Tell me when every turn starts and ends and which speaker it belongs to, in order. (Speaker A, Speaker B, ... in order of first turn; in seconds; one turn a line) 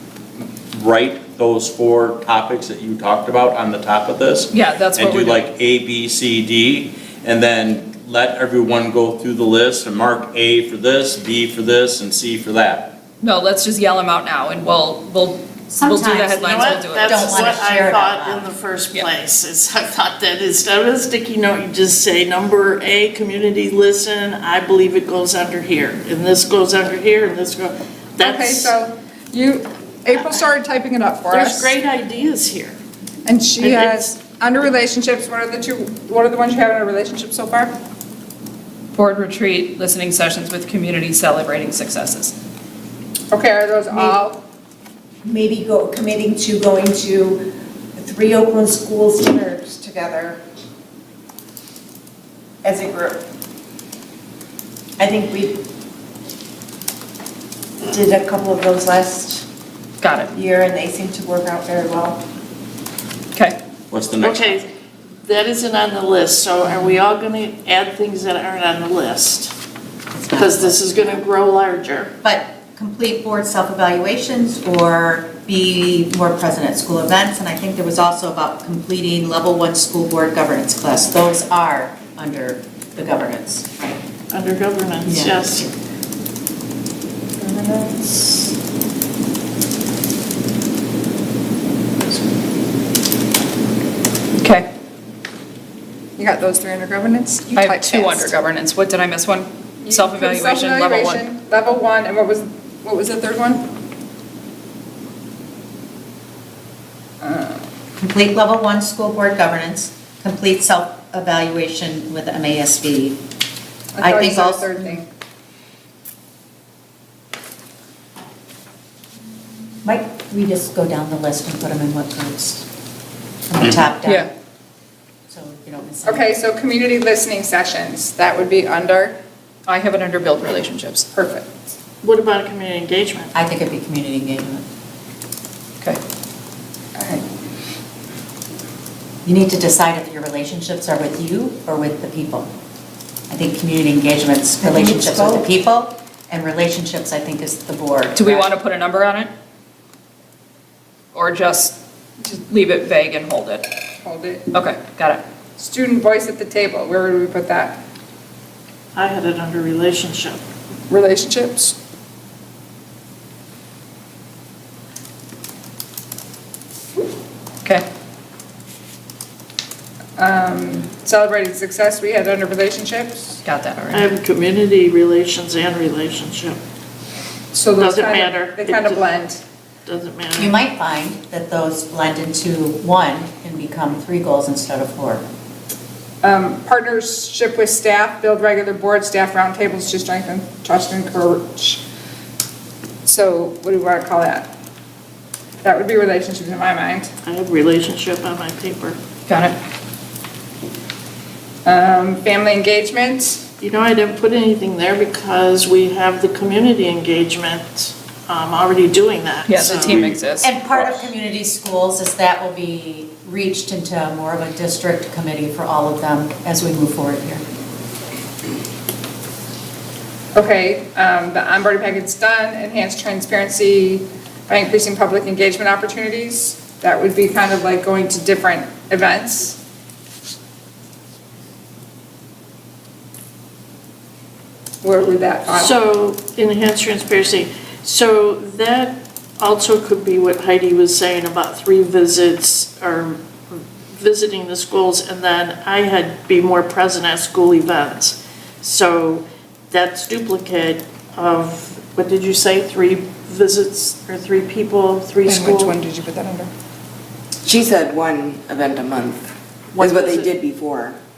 Speaker A: 0.7-13.0
Speaker B: 4.5-5.4
Speaker B: 13.2-17.5
Speaker C: 15.8-18.5
Speaker D: 16.4-28.8
Speaker E: 28.2-31.7
Speaker D: 31.3-32.8
Speaker E: 33.2-37.7
Speaker D: 33.6-34.1
Speaker B: 38.9-42.4
Speaker E: 43.3-44.4
Speaker F: 43.9-44.2
Speaker F: 45.2-50.4
Speaker F: 52.6-53.2
Speaker F: 55.0-55.6
Speaker F: 57.8-59.5
Speaker B: 60.0-60.3
Speaker F: 60.3-62.2
Speaker A: 63.9-64.6
Speaker D: 64.2-64.7
Speaker D: 65.2-69.5
Speaker C: 70.1-71.2
Speaker D: 70.3-72.1
Speaker C: 72.2-84.0
Speaker D: 84.3-85.7
Speaker C: 85.1-85.7
Speaker E: 87.4-88.4
Speaker B: 94.4-94.7
Speaker E: 96.2-98.3
Speaker B: 97.5-101.2
Speaker E: 99.8-103.7
Speaker E: 107.2-107.7
Speaker C: 108.0-113.2
Speaker E: 113.9-115.1
Speaker C: 114.0-114.8
Speaker C: 119.8-122.7
Speaker C: 123.5-124.3
Speaker C: 125.3-126.3
Speaker E: 126.0-129.2
Speaker B: 129.7-131.1
Speaker E: 131.1-131.7
Speaker D: 132.0-133.3
Speaker C: 133.3-134.7
Speaker E: 137.0-137.2
Speaker C: 139.2-142.5
Speaker C: 143.3-148.5
Speaker F: 144.6-145.5
Speaker B: 148.1-149.3
Speaker B: 151.1-153.7
Speaker E: 154.0-154.5
Speaker B: 154.5-155.2
Speaker E: 155.6-157.8
Speaker D: 158.9-160.4
Speaker E: 160.9-161.8
Speaker E: 170.2-173.4
Speaker B: 173.4-174.1
Speaker D: 173.9-176.6
Speaker E: 177.5-179.4
Speaker D: 177.8-179.0
Speaker D: 179.9-180.6
Speaker C: 180.4-185.2
Speaker E: 186.2-191.8
Speaker E: 193.0-194.5
Speaker E: 195.6-197.1
Speaker D: 197.2-199.0
Speaker B: 199.3-199.6
Speaker E: 201.7-203.4
Speaker D: 203.6-210.0
Speaker B: 209.5-210.5
Speaker C: 210.4-217.4
Speaker A: 210.7-211.1
Speaker E: 220.3-229.6
Speaker E: 234.8-235.8
Speaker D: 235.5-255.8
Speaker E: 255.2-256.5
Speaker G: 257.4-261.0
Speaker D: 259.7-260.3